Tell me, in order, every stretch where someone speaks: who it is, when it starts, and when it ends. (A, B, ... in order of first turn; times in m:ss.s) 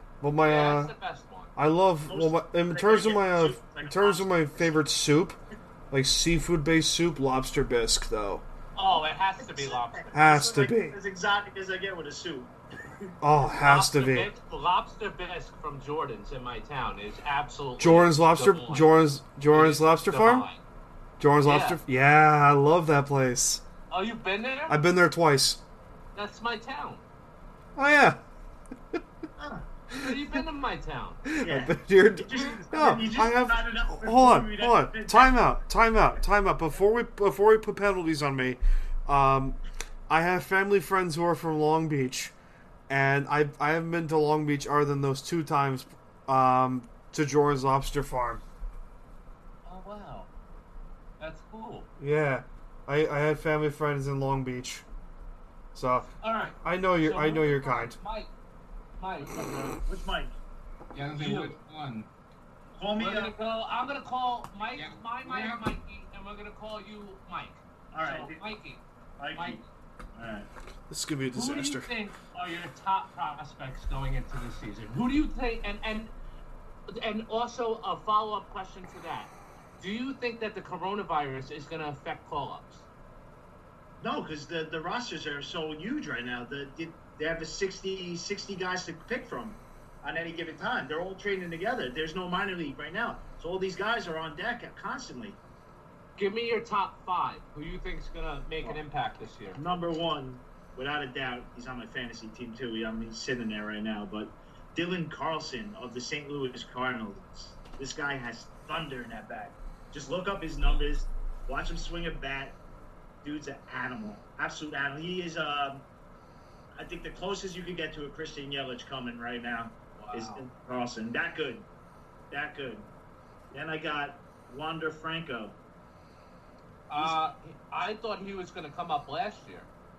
0:00.2-0:00.9 A
0:00.4-0:01.5 B
0:01.6-0:05.4 A
0:02.1-0:04.8 C
0:05.9-0:08.4 A
0:08.8-0:10.4 B
0:08.9-0:12.5 C
0:10.1-0:11.0 A
0:13.2-0:14.3 A
0:13.6-0:18.9 B
0:17.8-0:20.4 A
0:19.5-0:20.6 B
0:21.2-0:23.6 A
0:21.4-0:21.8 B
0:23.9-0:24.8 B
0:24.7-0:25.6 A
0:26.2-0:27.0 B
0:27.8-0:28.2 A
0:29.4-0:29.7 C
0:29.9-0:31.2 B
0:31.3-0:39.6 A
0:31.4-0:35.7 C
0:40.1-0:42.3 A
0:42.9-0:48.4 A
0:49.7-0:50.3 B
0:51.2-0:51.9 B
0:52.0-0:54.8 A
0:55.7-0:56.1 A
0:56.2-0:58.3 B
0:56.6-0:58.0 A
0:59.0-0:59.5 B
0:59.2-1:00.4 C
1:00.9-1:02.1 D
1:01.1-1:01.6 B
1:02.8-1:03.3 C
1:03.0-1:08.8 B
1:04.8-1:05.7 D
1:07.9-1:08.4 C
1:09.2-1:09.6 C
1:09.3-1:09.6 B
1:10.2-1:10.5 C
1:10.9-1:11.9 A
1:11.3-1:16.1 B
1:16.9-1:22.9 B
1:24.0-1:35.4 C
1:36.2-1:39.7 B
1:39.6-1:52.6 C
1:53.2-1:55.8 C
1:56.8-2:01.7 C
2:00.0-2:00.5 B
2:02.3-2:02.9 C
2:03.5-2:05.6 C
2:06.9-2:09.7 B